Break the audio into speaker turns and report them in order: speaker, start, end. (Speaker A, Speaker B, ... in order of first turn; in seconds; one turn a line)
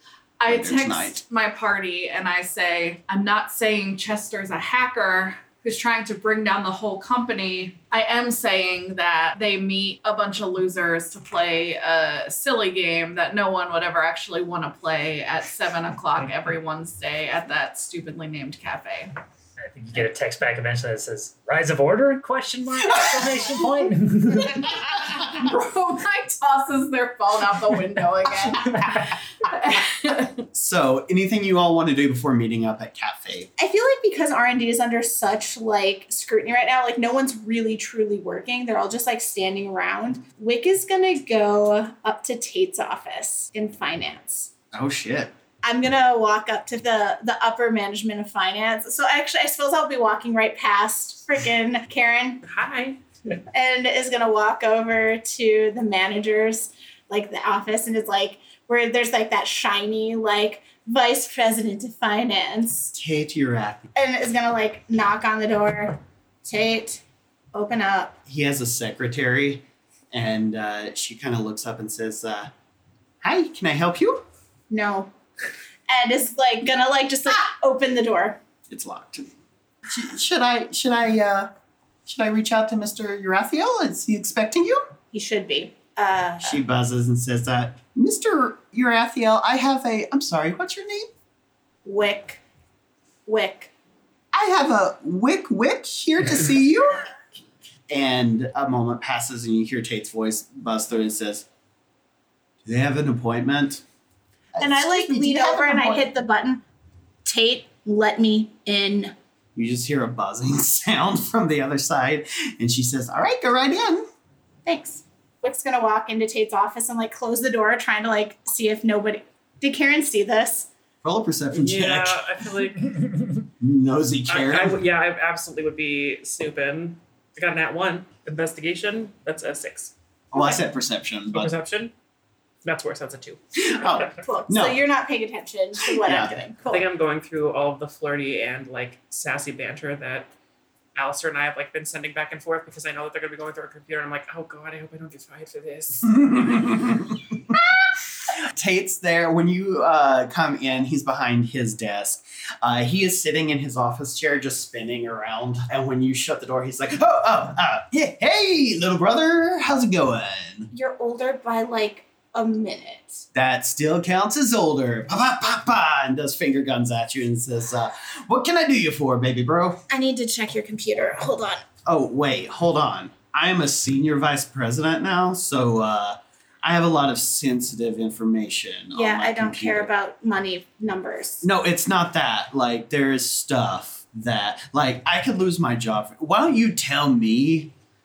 Speaker A: 0.4-19.1
Speaker B: 0.5-1.2
Speaker C: 19.6-24.6
Speaker A: 24.4-30.4
Speaker B: 30.5-33.5
Speaker D: 33.6-44.5
Speaker B: 44.7-45.3
Speaker D: 45.6-52.4
Speaker E: 52.4-53.0
Speaker D: 53.5-63.0
Speaker B: 62.9-63.9
Speaker D: 64.0-68.2
Speaker B: 68.3-72.5
Speaker B: 73.2-74.2
Speaker D: 74.7-75.1
Speaker D: 75.9-78.4
Speaker B: 78.7-79.3
Speaker B: 79.9-81.5
Speaker B: 82.1-84.9
Speaker D: 85.1-86.6
Speaker B: 86.4-91.1
Speaker D: 91.8-92.4
Speaker D: 93.3-93.7
Speaker B: 94.3-97.1
Speaker B: 97.9-101.5
Speaker B: 102.7-103.8
Speaker B: 104.5-106.1
Speaker D: 104.6-106.6
Speaker D: 107.2-109.1
Speaker B: 109.5-114.0
Speaker D: 114.7-120.7
Speaker B: 121.0-122.2
Speaker E: 121.5-123.0
Speaker B: 123.6-124.8
Speaker E: 124.3-129.9
Speaker B: 130.3-131.5
Speaker E: 131.3-131.9
Speaker E: 132.6-133.4
Speaker B: 133.6-134.8
Speaker D: 134.1-136.8
Speaker B: 136.0-136.3
Speaker E: 136.7-140.3
Speaker E: 140.9-146.6
Speaker B: 146.0-147.6
Speaker B: 148.4-160.7
Speaker D: 160.7-163.3
Speaker B: 163.3-169.8
Speaker D: 169.9-171.7
Speaker B: 171.9-179.9
Speaker D: 178.9-181.5
Speaker B: 181.4-187.7